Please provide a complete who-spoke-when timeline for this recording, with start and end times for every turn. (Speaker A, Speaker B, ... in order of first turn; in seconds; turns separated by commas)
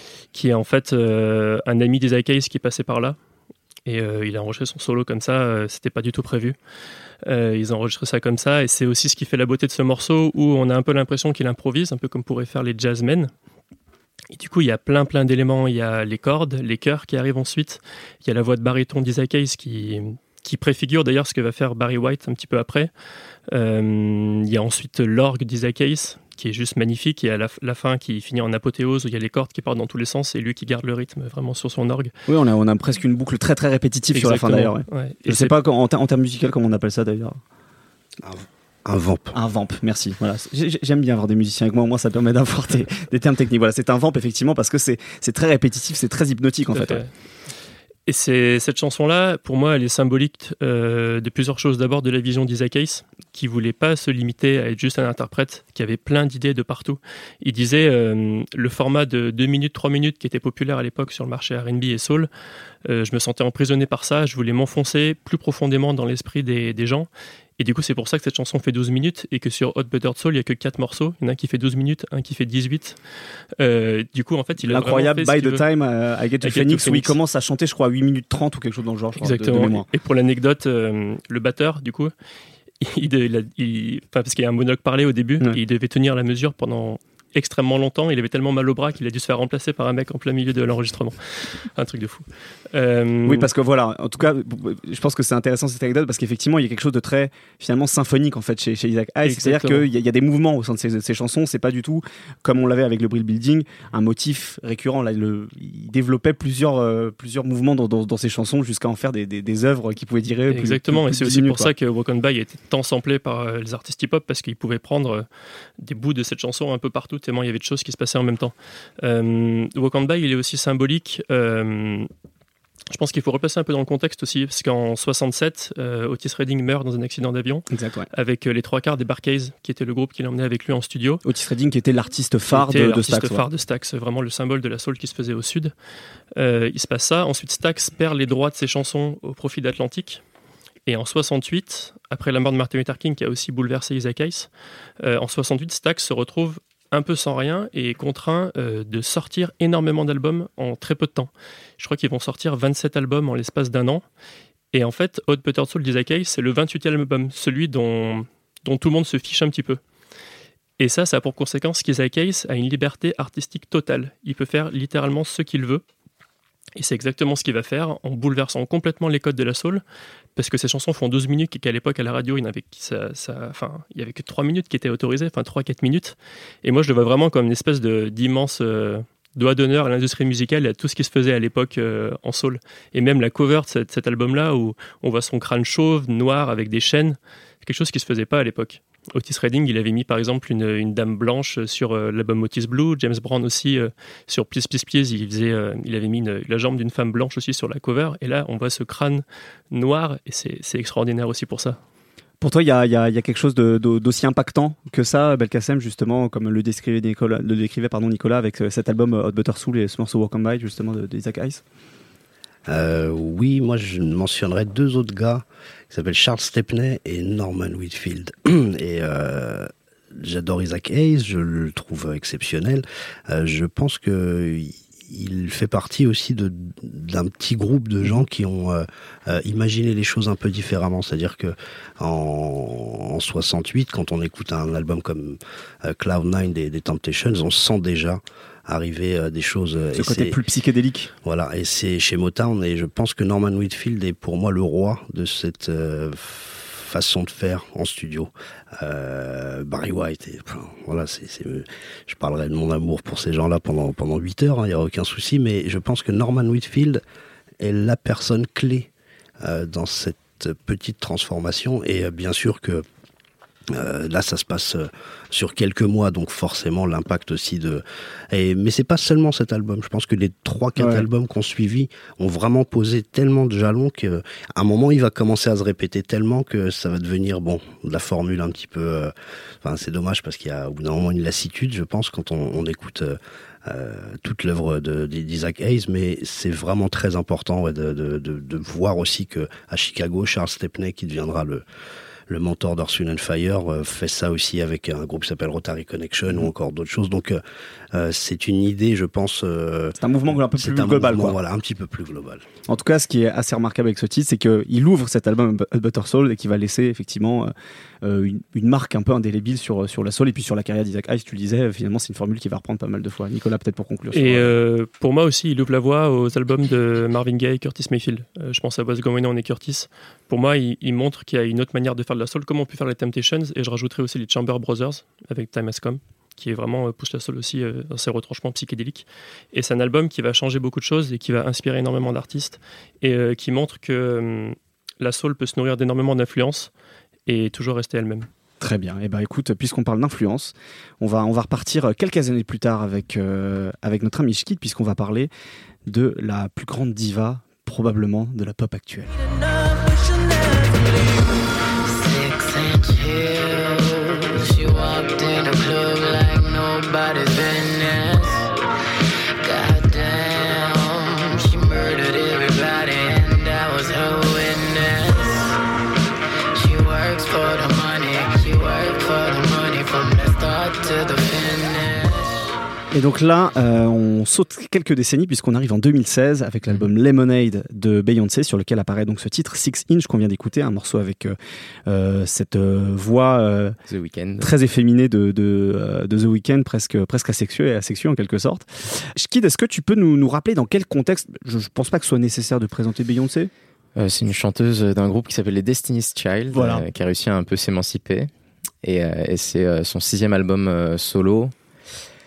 Speaker A: 0.3-3.2, Speaker A: 3.9-6.6, Speaker A: 7.2-13.3, Speaker A: 14.3-22.9, Speaker A: 23.5-32.1, Speaker B: 32.3-37.4, Speaker A: 34.1-35.5, Speaker C: 38.2-39.4, Speaker B: 39.3-47.0, Speaker A: 46.7-47.1, Speaker A: 48.1-62.3, Speaker A: 62.9-73.0, Speaker A: 73.6-75.6, Speaker B: 74.6-79.9, Speaker A: 76.4-77.2, Speaker A: 79.2-82.1, Speaker A: 82.8-93.5, Speaker B: 93.2-111.7, Speaker A: 99.3-99.9, Speaker A: 110.5-115.3, Speaker A: 115.8-122.1, Speaker A: 122.9-131.2, Speaker B: 127.7-128.1, Speaker B: 131.2-133.5, Speaker A: 132.5-135.7, Speaker A: 136.4-140.2, Speaker A: 140.9-144.5, Speaker A: 145.0-154.0, Speaker A: 154.7-159.8, Speaker A: 160.8-165.8, Speaker A: 166.8-169.8, Speaker A: 170.4-201.8, Speaker B: 202.4-211.6, Speaker C: 212.7-240.4, Speaker B: 239.9-241.1, Speaker C: 241.2-257.0, Speaker C: 257.6-258.9, Speaker C: 259.4-262.8, Speaker C: 263.7-291.6, Speaker B: 270.8-271.1, Speaker C: 292.3-297.4, Speaker C: 297.9-302.4, Speaker B: 300.0-301.4, Speaker B: 302.7-314.6, Speaker A: 314.1-336.7, Speaker A: 337.3-338.3, Speaker B: 338.6-345.3, Speaker B: 345.9-349.1, Speaker D: 351.9-358.4, Speaker D: 359.4-365.2, Speaker D: 366.6-372.1, Speaker B: 372.9-381.4, Speaker B: 381.9-383.8, Speaker E: 383.9-384.5, Speaker B: 384.4-393.5, Speaker E: 394.0-398.3, Speaker B: 396.5-396.8, Speaker E: 398.8-401.5